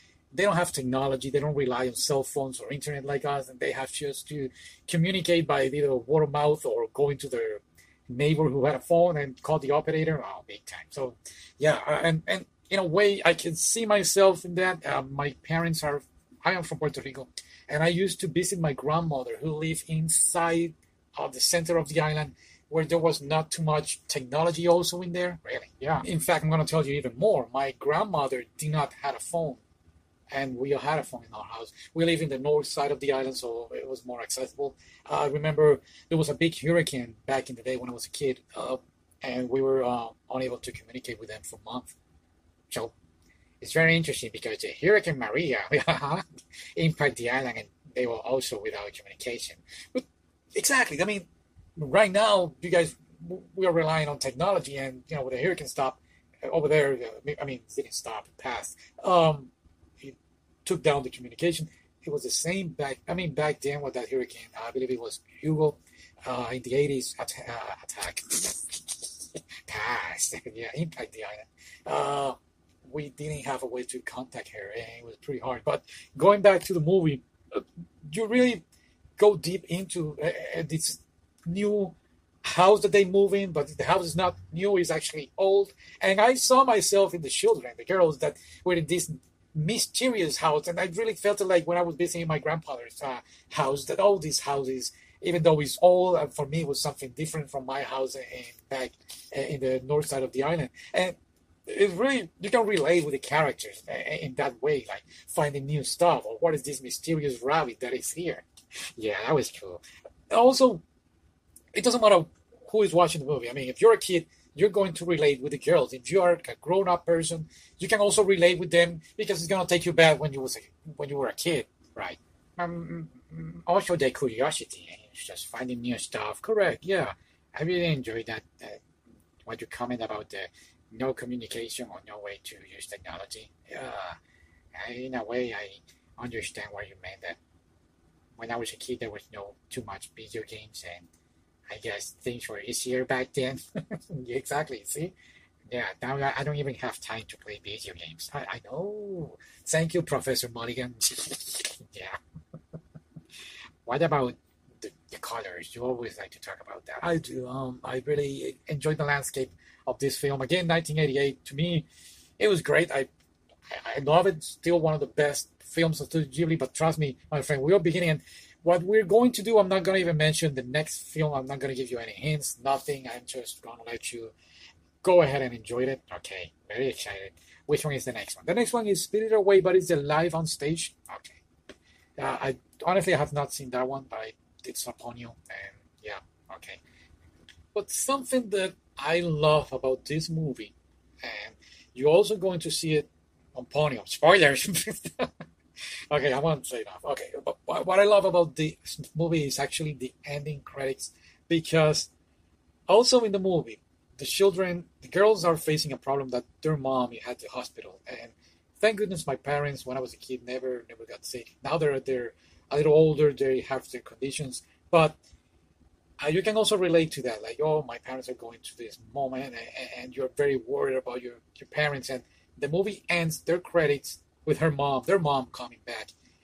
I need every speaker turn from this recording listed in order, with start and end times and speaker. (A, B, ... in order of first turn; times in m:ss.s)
0:00.3-0:29.6 A
0:30.3-0:42.0 A
0:42.7-0:42.9 A
0:43.6-0:46.2 A
0:46.7-1:18.6 A
1:19.2-1:41.2 A
1:41.7-1:50.8 A
1:51.7-2:08.8 A
2:09.4-2:14.2 A
2:14.7-2:17.4 A
2:18.4-2:21.1 A
2:21.7-2:25.1 A
2:25.7-2:32.2 A
2:33.8-2:41.8 A
2:42.4-2:43.1 A
2:43.7-2:54.3 A
2:55.0-3:01.4 A
3:02.2-3:06.8 A
3:07.7-3:15.3 A
3:16.1-3:22.1 A
3:22.9-3:35.2 A
3:36.2-3:46.1 A